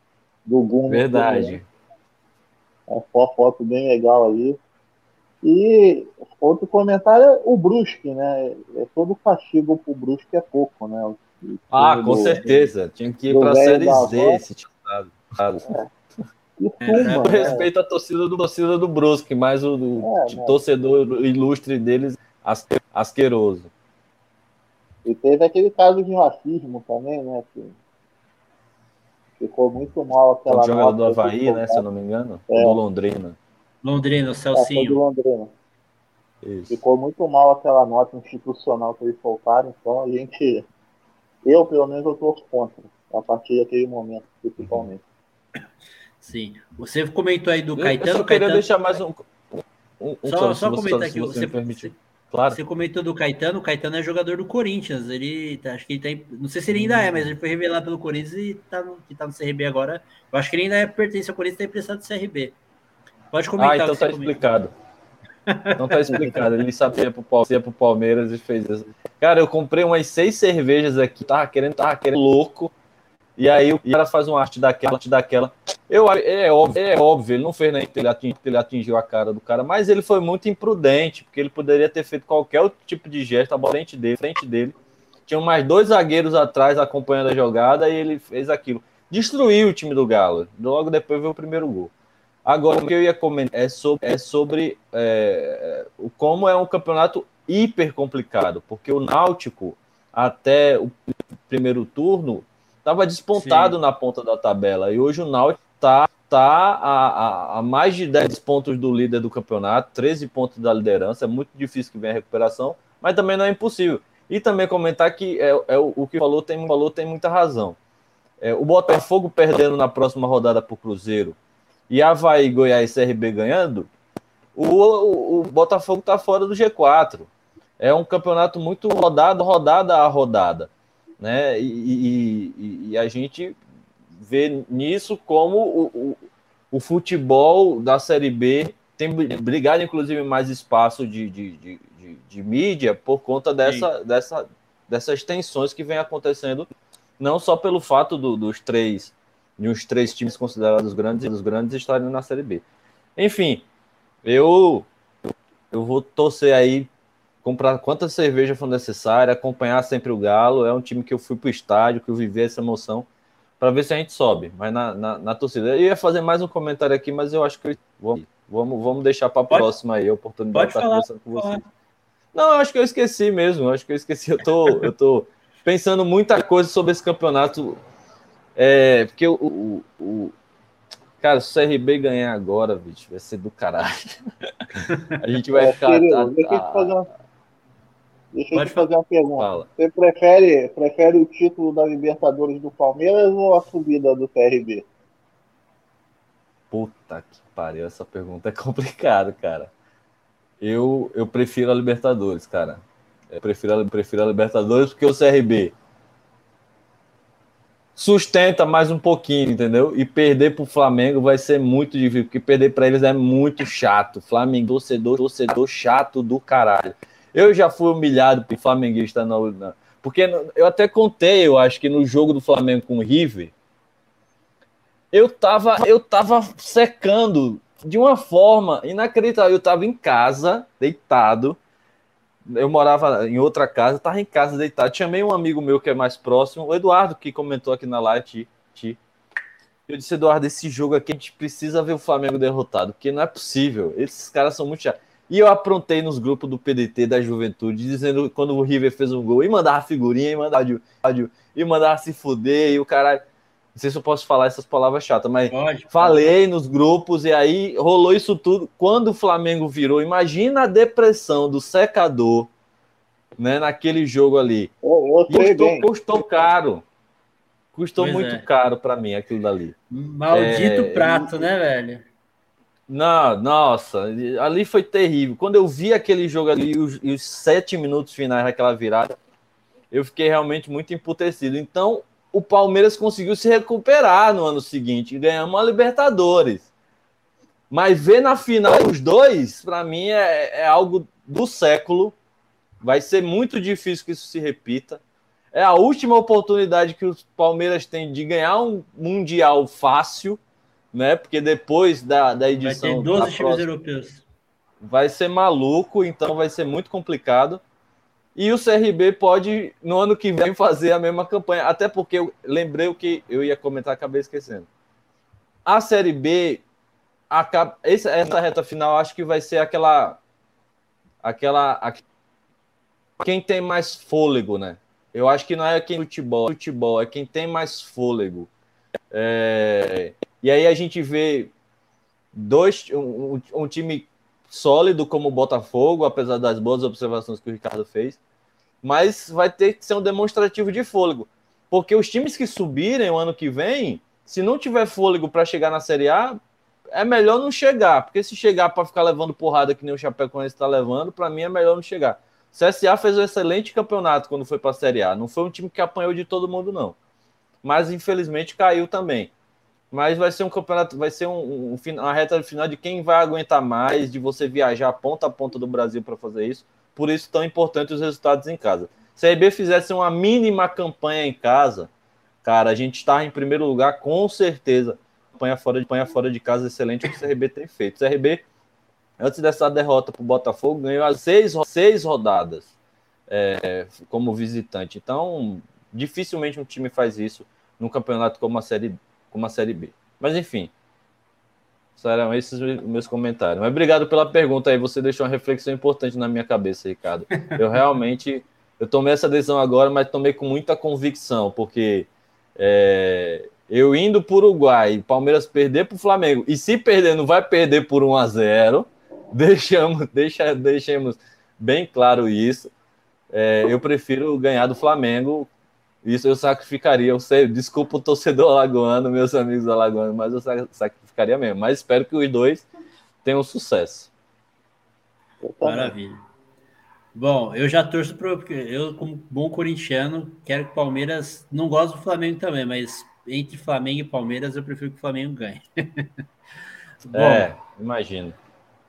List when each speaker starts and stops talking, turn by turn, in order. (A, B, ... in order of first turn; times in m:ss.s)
0:00.4-0:01.6 A
0:00.9-0:01.6 B
0:02.9-0:04.6 A
0:05.4-0:12.7 A
0:11.7-0:15.7 B
0:13.3-0:14.4 A
0:16.6-0:17.7 A
0:16.8-0:17.6 C
0:16.9-0:23.7 B
0:20.0-0:20.6 A
0:25.0-0:27.8 A
0:29.4-0:31.8 A
0:30.5-0:33.4 B
0:32.5-0:32.8 A
0:33.8-0:35.0 C
0:34.5-0:35.5 A
0:36.4-0:36.8 B
0:36.7-0:40.6 A
0:41.4-0:45.0 A
0:44.6-0:44.9 B
0:46.2-0:48.7 C
0:47.8-0:52.6 B
0:50.2-0:51.9 C
0:52.5-1:02.6 C
0:56.8-0:57.1 B
1:03.3-1:04.4 C
1:03.6-1:04.7 B
1:05.5-1:06.4 C
1:05.8-1:12.7 B
1:13.4-1:24.7 B
1:25.3-1:31.9 B
1:32.4-1:57.8 B
1:43.3-1:43.8 C
1:58.4-2:01.4 B
2:01.9-2:03.9 B
2:04.5-2:13.6 B
2:14.2-2:16.2 B
2:16.7-2:26.7 B
2:27.2-2:32.6 B
2:33.2-2:33.6 B
2:34.2-2:34.9 B
2:35.7-2:36.9 B
2:37.4-2:43.0 B
2:43.6-2:51.6 B
2:50.5-2:51.6 C
2:52.3-2:57.8 B
2:58.6-3:00.3 B
3:01.2-3:04.2 B
3:04.7-3:06.9 B
3:04.9-3:05.2 C
3:05.5-3:07.1 A
3:08.3-3:14.9 A
3:08.5-3:08.8 C
3:09.4-3:09.7 B
3:16.7-3:19.7 B
3:20.6-3:25.7 B
3:28.0-3:43.5 B
3:45.1-3:51.6 B
3:52.5-3:59.0 B
3:59.9-4:13.2 B
4:13.7-4:22.5 B
4:15.5-4:16.2 C
4:23.4-4:24.7 B
4:24.8-4:25.9 A
4:25.3-4:26.8 B
4:27.7-4:29.7 B
4:28.0-4:28.4 C
4:29.9-4:32.0 C
4:30.3-4:31.4 B
4:32.9-4:39.1 B
4:39.9-4:46.7 B
4:47.7-4:52.2 B
4:52.8-4:55.0 B
4:55.5-5:00.4 B
5:00.9-5:03.6 B
5:02.6-5:04.2 C
5:04.8-5:07.6 B
5:08.3-5:14.7 B
5:15.6-5:16.6 B
5:17.3-5:20.2 B
5:21.2-5:22.0 B
5:23.2-5:28.5 B
5:29.1-5:31.5 B
5:32.3-5:38.2 B
5:38.8-5:46.4 B
5:46.9-5:57.0 B
5:57.6-5:59.3 B
5:59.9-6:11.9 B
6:12.4-6:18.4 B
6:19.2-6:22.7 B
6:23.3-6:30.7 B
6:32.0-6:52.7 B
6:53.3-6:55.5 B
6:56.0-7:02.6 B
7:03.2-7:04.1 B
7:05.4-7:05.9 A
7:05.6-7:06.2 C
7:07.1-7:16.1 C
7:17.0-7:17.5 C
7:17.1-7:18.4 B